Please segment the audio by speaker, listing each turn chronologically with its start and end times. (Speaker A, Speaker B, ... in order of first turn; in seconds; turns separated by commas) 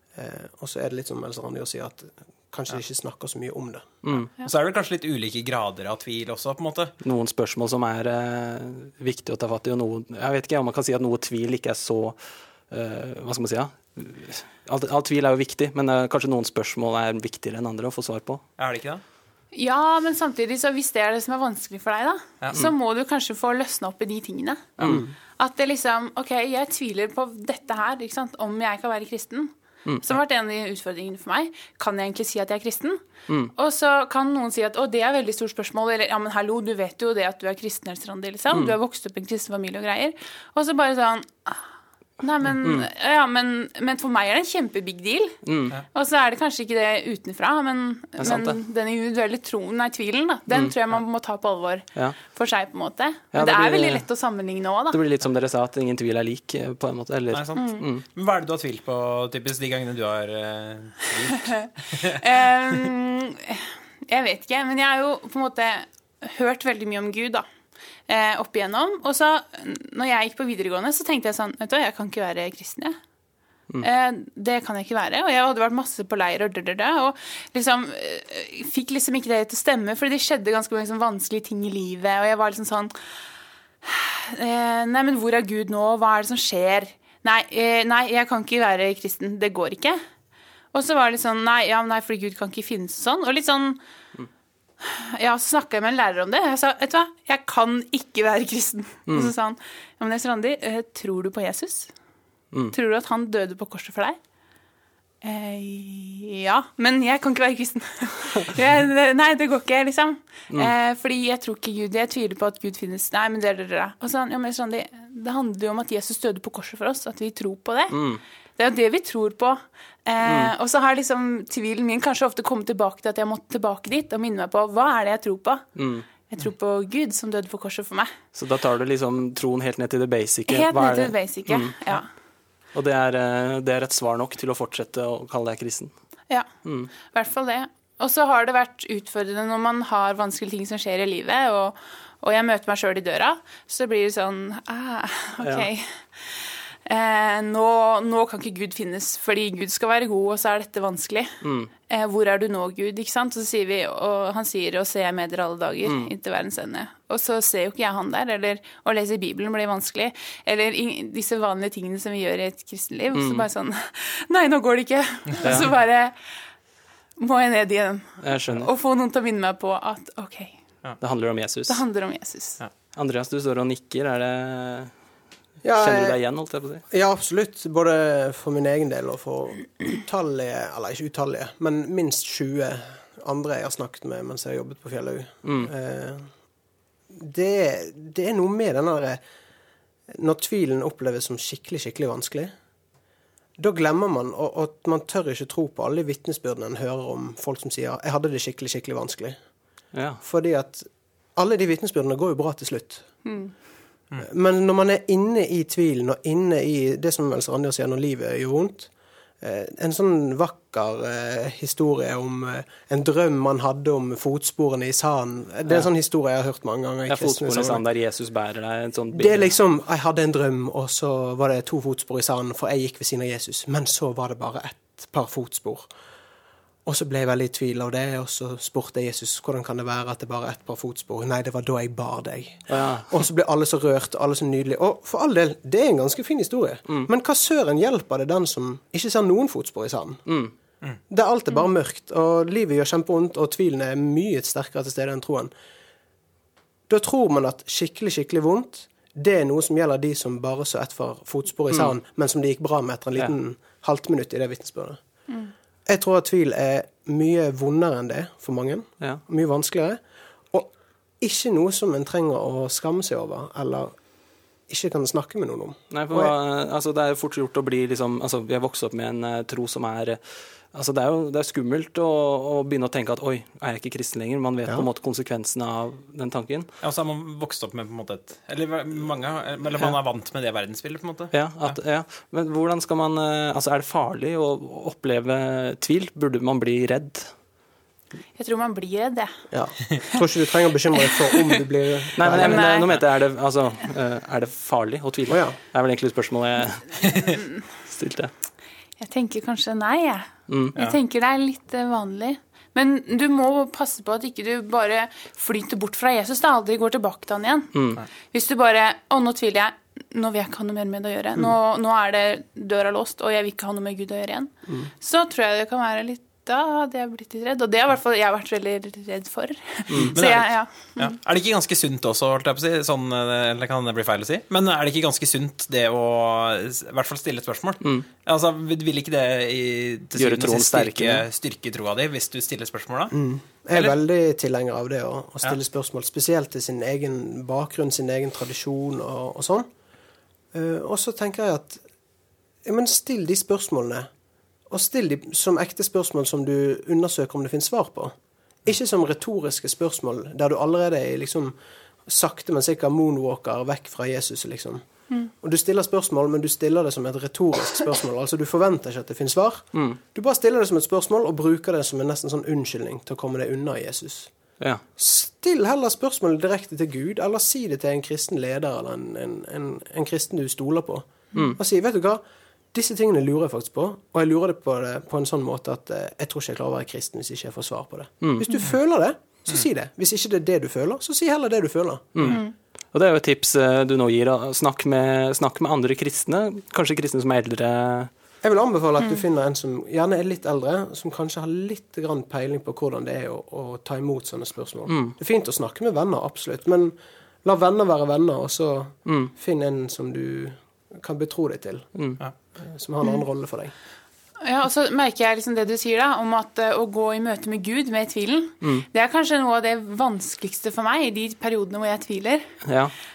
Speaker A: 0.1-3.9, Speaker B: 4.0-4.3, Speaker C: 4.4-6.9, Speaker B: 7.0-12.2, Speaker B: 12.7-18.4, Speaker C: 18.6-19.0, Speaker D: 19.5-33.0, Speaker C: 22.4-22.7, Speaker B: 24.8-25.1, Speaker A: 24.8-25.1, Speaker B: 33.3-33.5, Speaker D: 33.5-41.6, Speaker D: 42.2-45.4, Speaker B: 42.6-42.9, Speaker B: 45.4-45.8, Speaker D: 45.9-55.0, Speaker B: 48.2-48.6, Speaker B: 53.3-54.0, Speaker B: 54.9-58.0, Speaker C: 57.3-62.4, Speaker D: 57.5-57.8, Speaker D: 62.0-67.5, Speaker D: 68.1-73.0, Speaker D: 73.8-82.9, Speaker D: 83.8-90.0, Speaker D: 90.7-93.8, Speaker D: 94.8-101.9, Speaker D: 102.7-104.2, Speaker D: 105.2-118.0, Speaker B: 117.9-118.2, Speaker D: 118.6-125.7, Speaker B: 120.2-120.5, Speaker B: 125.8-126.0, Speaker D: 126.3-128.1, Speaker B: 128.3-131.8, Speaker D: 130.5-132.1, Speaker B: 132.7-135.9, Speaker B: 136.6-136.9, Speaker D: 137.0-151.3, Speaker B: 145.4-145.7, Speaker B: 151.4-151.7, Speaker D: 151.8-166.2, Speaker B: 155.8-156.1, Speaker B: 163.1-163.4, Speaker B: 165.4-165.7, Speaker D: 167.2-170.6, Speaker B: 168.2-168.7, Speaker B: 171.0-171.8, Speaker D: 171.7-172.6, Speaker B: 172.9-174.9, Speaker A: 175.6-176.2, Speaker B: 175.8-176.8, Speaker A: 176.9-186.3, Speaker B: 185.4-185.7, Speaker A: 187.1-189.2, Speaker A: 190.1-192.5, Speaker A: 193.6-199.4, Speaker B: 199.9-200.2, Speaker A: 200.2-203.1, Speaker D: 203.2-203.5, Speaker A: 204.2-208.9, Speaker A: 209.4-217.8, Speaker B: 217.1-219.5, Speaker A: 219.1-225.9, Speaker A: 226.8-240.2, Speaker B: 232.7-233.1, Speaker B: 240.3-240.5, Speaker A: 241.1-245.5, Speaker A: 246.9-255.0, Speaker A: 255.9-260.0, Speaker A: 260.5-263.9, Speaker A: 264.7-266.3, Speaker B: 265.9-270.2, Speaker B: 270.7-276.7, Speaker C: 276.8-281.3, Speaker B: 281.3-287.3, Speaker D: 288.4-289.3, Speaker A: 289.5-292.8, Speaker D: 291.0-291.5, Speaker B: 292.2-297.1, Speaker D: 292.4-292.9, Speaker A: 295.3-295.6, Speaker B: 297.9-298.3, Speaker D: 299.0-307.7, Speaker B: 300.5-300.8, Speaker B: 307.7-308.0, Speaker D: 308.3-321.1, Speaker B: 319.9-320.2, Speaker C: 320.1-333.1, Speaker B: 330.1-331.2, Speaker A: 333.1-339.7, Speaker A: 340.5-341.8, Speaker A: 342.6-344.1, Speaker A: 344.7-348.1, Speaker A: 348.6-351.6, Speaker A: 352.1-354.8, Speaker A: 355.4-364.3, Speaker B: 359.7-360.0, Speaker A: 365.0-372.2, Speaker A: 372.7-382.3, Speaker B: 378.2-378.5, Speaker B: 382.1-382.4, Speaker B: 382.9-388.1, Speaker A: 388.4-401.9, Speaker B: 394.9-395.1, Speaker B: 399.1-399.3, Speaker A: 402.6-403.7, Speaker D: 404.4-412.4, Speaker B: 412.6-412.9